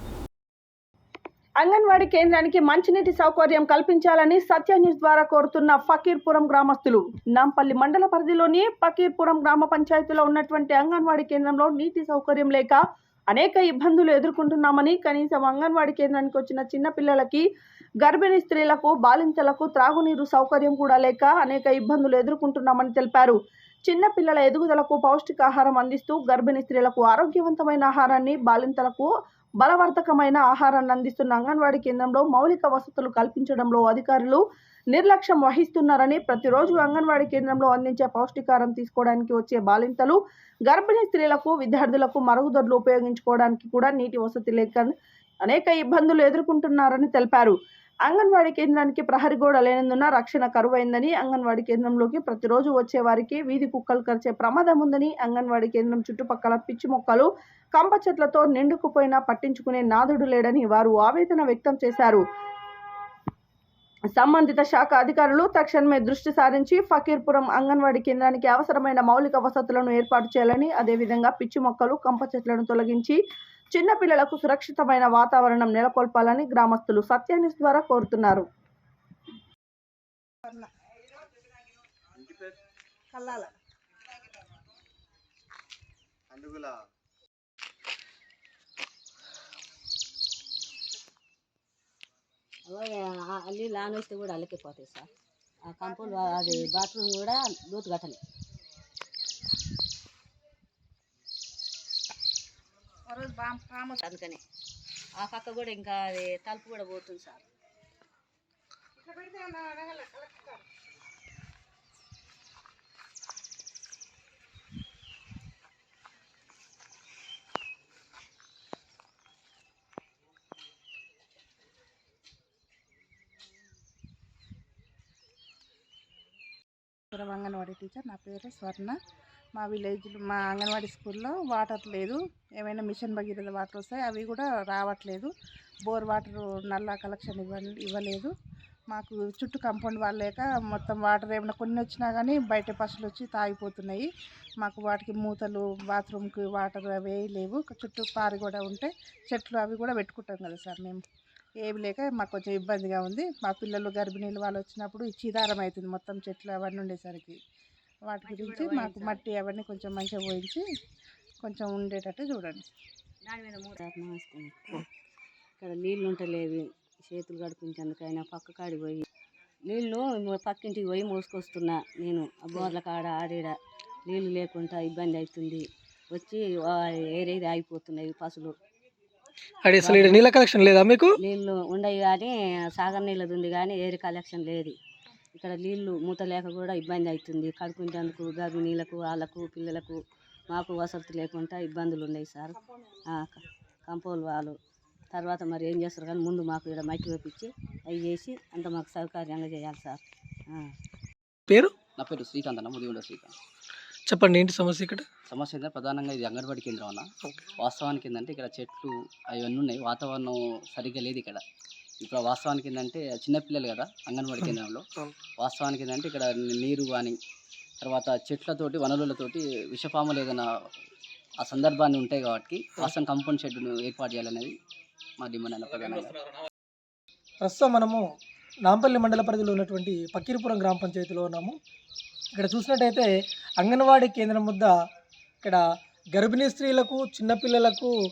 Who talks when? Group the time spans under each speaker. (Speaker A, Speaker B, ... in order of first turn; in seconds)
Speaker A: 1.6-17.4, 18.0-23.4, 23.9-29.1, 29.6-44.9, 45.5-62.2, 64.2-73.2, 73.7-78.5
Speaker B: 83.1-83.5, 95.8-96.7, 103.1-104.0, 109.0-110.6, 127.1-129.0, 129.6-135.3, 135.9-138.3, 138.9-144.1, 144.6-151.0, 151.6-157.4, 158.1-160.6, 161.4-162.7
Speaker C: 92.7-95.1, 95.7-98.2, 104.0-104.4, 105.2-107.4, 158.4-159.0, 163.2-164.7, 165.6-169.1, 169.7-173.5, 174.1-178.5, 179.8-180.2, 181.2-184.8, 185.3-190.0, 190.5-192.6, 193.1-194.6, 195.1-200.7
Speaker D: 179.6-181.1, 201.5-201.7, 204.1-205.1, 227.4-228.0, 228.7-231.6, 232.4-233.1, 233.6-234.7, 236.2-237.9
Speaker E: 202.0-203.3, 205.3-207.1, 207.6-211.4, 212.0-214.8, 215.4-217.2, 217.8-220.5, 221.4-224.5, 225.2-226.1